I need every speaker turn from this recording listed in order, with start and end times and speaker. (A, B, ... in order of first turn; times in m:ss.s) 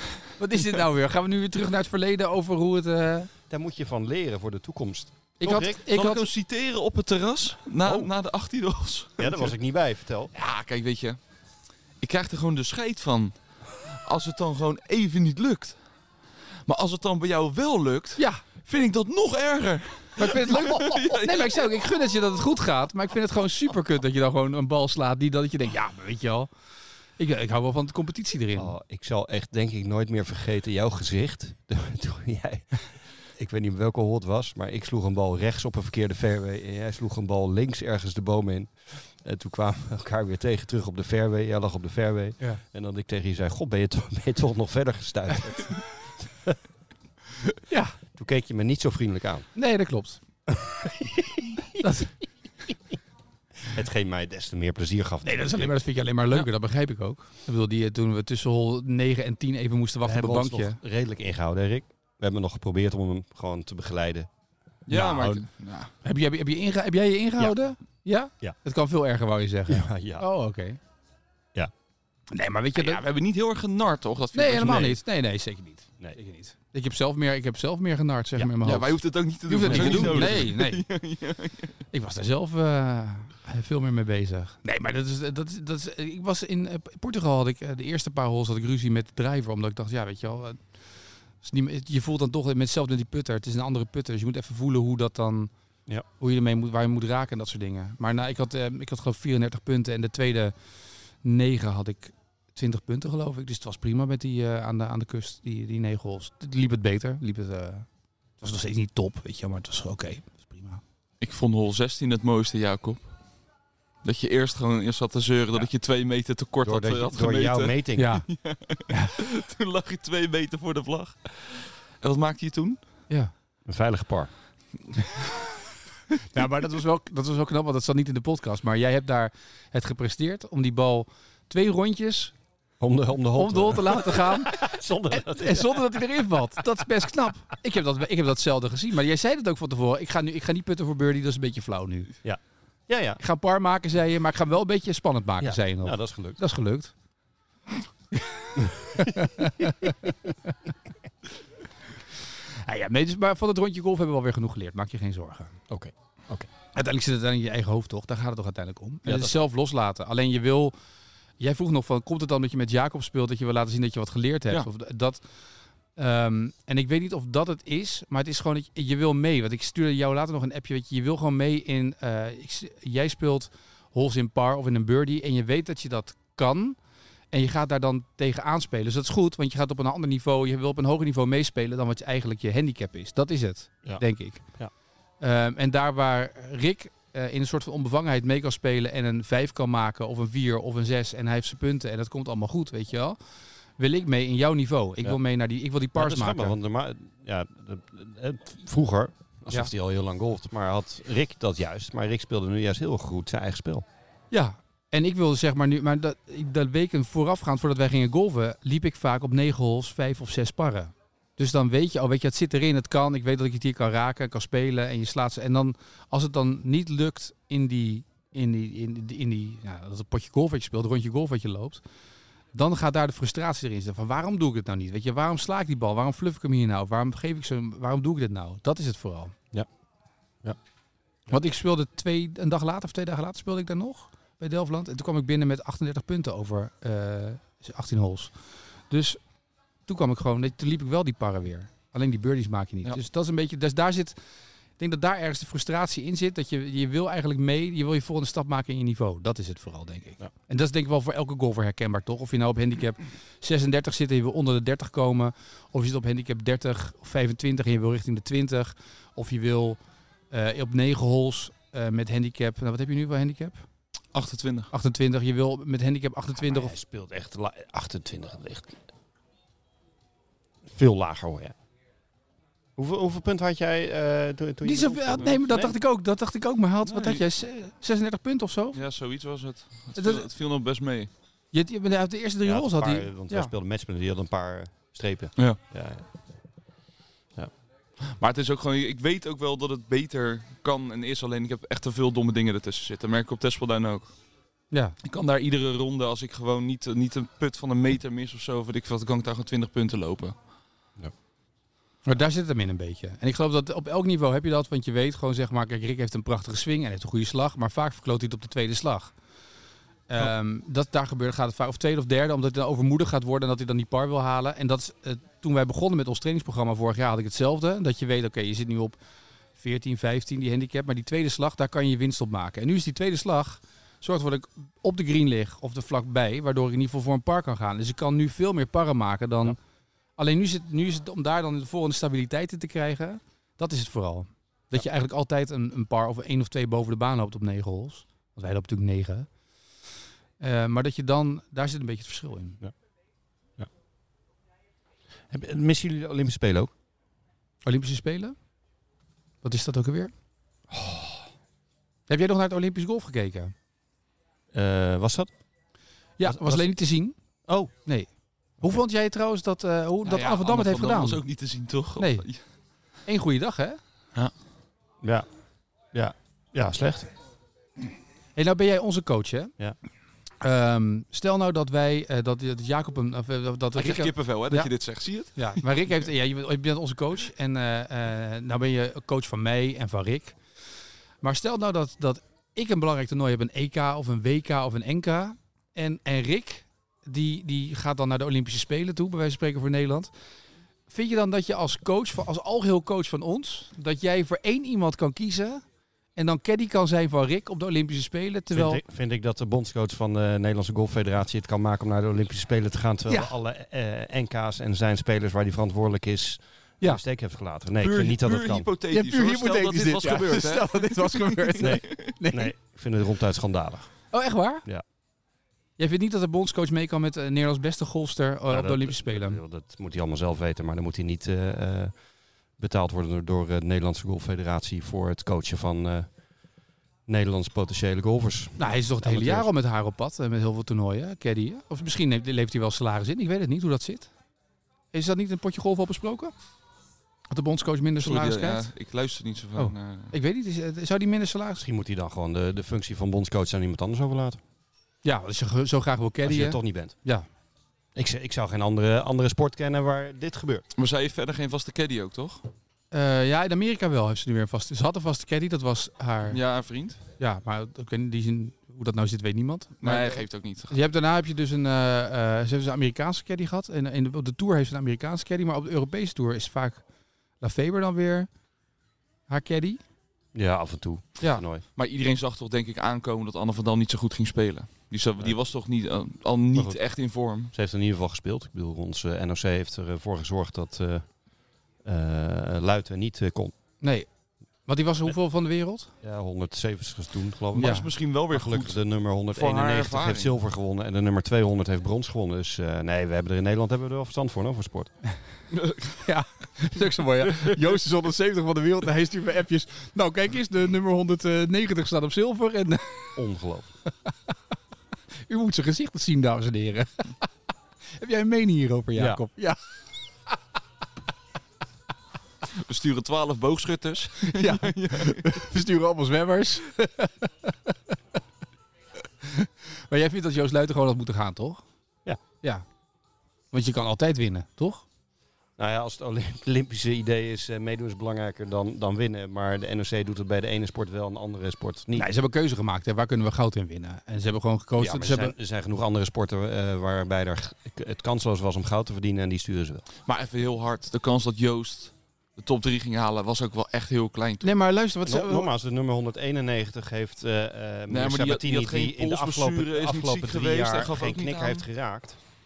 0:00.2-0:03.3 A
0:03.5-0:05.8 B
0:05.4-0:06.3 A
0:05.9-0:09.5 C
0:07.8-0:08.1 B
0:09.2-0:10.3 B
0:10.3-0:11.2 C
0:12.0-0:15.8 C
0:16.6-0:21.6 C
0:18.2-0:18.4 A
0:20.2-0:26.5 A
0:27.2-0:28.7 A
0:28.6-0:46.5 B
0:47.7-0:48.0 A
0:48.1-0:49.5 B
0:49.5-0:50.2 A
0:51.8-0:52.2 A
0:53.7-0:55.7 B
0:55.2-1:00.8 A
1:00.0-1:04.3 B
1:04.9-1:05.9 C
1:04.9-1:05.4 B
1:06.0-1:10.8 A
1:09.7-1:10.2 B
1:12.3-1:13.0 A
1:12.7-1:15.0 C
1:14.3-1:20.8 A
1:18.6-1:21.8 C
1:19.6-1:20.4 B
1:21.9-1:30.7 A
1:31.4-1:35.5 A
1:36.2-1:40.5 A
1:41.2-1:47.9 A
1:48.4-1:50.8 A
1:51.2-1:53.1 C
1:54.0-2:02.8 C
1:56.6-1:58.1 B
1:58.0-1:58.3 A
1:58.9-1:59.2 A
2:03.7-2:04.3 B
2:06.3-2:12.3 A
2:12.8-2:15.8 B
2:13.4-2:22.1 A
2:22.2-2:23.2 B
2:23.2-2:26.9 A
2:25.4-2:26.4 B
2:28.1-2:30.1 A
2:28.6-2:29.2 B
2:32.5-2:35.6 A
2:35.7-2:36.5 B
2:36.7-2:40.7 A
2:39.0-2:39.4 B
2:41.4-2:45.2 A
2:46.0-2:56.8 A
2:57.3-3:04.5 A
3:05.2-3:13.2 A
3:13.8-3:16.6 A
3:15.9-3:23.8 B
3:24.3-3:41.8 A
3:42.5-3:49.3 A
3:51.3-3:58.3 A
3:58.9-3:59.2 A
3:59.8-4:04.2 A
4:04.8-4:19.8 A
4:20.3-4:23.6 A
4:24.1-4:24.7 C
4:24.7-4:26.7 A
4:26.4-4:28.8 B
4:30.7-4:31.5 B
4:32.8-4:35.7 B
4:34.6-4:38.8 A
4:36.8-4:37.2 C
4:38.7-4:41.1 C
4:40.0-4:40.2 A
4:41.5-4:43.5 A
4:42.4-4:46.0 B
4:48.0-4:54.1 C
4:54.7-4:55.0 A
4:55.0-5:00.3 C
5:02.0-5:09.1 A
5:10.1-5:19.0 A
5:19.6-5:29.6 A
5:30.2-5:39.3 A
5:40.4-5:42.6 A
5:45.3-5:46.7 B
5:47.6-5:48.3 A
5:49.4-5:50.1 A
5:50.7-5:51.2 B
5:52.1-5:53.5 A
5:54.5-5:55.3 B
5:56.2-5:57.1 A
5:56.2-5:56.7 B
5:57.5-5:57.7 B
5:57.8-6:01.2 A
6:00.0-6:02.4 C
6:02.0-6:02.3 A
6:03.0-6:03.8 A
6:05.0-6:05.3 B
6:05.9-6:07.1 B
6:08.3-6:09.5 A
6:10.4-6:14.7 A
6:13.7-6:15.6 C
6:15.3-6:20.4 A
6:21.2-6:30.1 A
6:30.9-6:35.6 A
6:36.2-6:38.8 A
6:38.5-6:48.7 B
6:43.1-6:43.3 A
6:47.8-6:52.1 C
6:48.9-6:52.5 A
6:51.6-6:54.0 B
6:54.1-6:54.6 A
6:55.8-6:59.4 A
6:58.5-7:02.0 B
7:02.6-7:06.1 B
7:07.1-7:09.5 B
7:08.6-7:14.1 A
7:14.9-7:16.3 A
7:17.3-7:18.7 A
7:18.0-7:20.1 C
7:19.6-7:21.6 A
7:21.6-7:24.4 B
7:25.0-7:27.3 A
7:26.2-7:26.9 B
7:27.9-7:30.6 B
7:30.7-7:32.4 C
7:32.9-7:36.4 A
7:36.3-7:37.0 C
7:37.2-7:46.8 A
7:39.8-7:40.8 C
7:47.4-7:48.3 A
7:49.3-7:49.8 A
7:50.3-7:51.6 B
7:51.8-7:57.5 C
7:57.5-8:01.1 B
8:01.8-8:03.5 B
8:03.8-8:04.1 A
8:04.6-8:05.9 A
8:06.0-8:14.9 B
8:07.5-8:08.8 C
8:07.6-8:07.9 A
8:09.3-8:10.3 C
8:15.5-8:15.9 C
8:15.8-8:23.2 A
8:23.2-8:23.7 B
8:25.3-8:27.3 A
8:27.9-8:29.6 A
8:29.0-8:29.2 B
8:32.5-8:35.3 C
8:34.2-8:37.9 A
8:39.2-8:41.6 A
8:43.5-8:44.8 A
8:45.6-8:52.1 B
8:52.0-8:55.3 A
8:54.8-8:59.8 B
9:00.0-9:04.5 C
9:04.4-9:05.5 A
9:05.0-9:12.2 B
9:07.9-9:11.6 C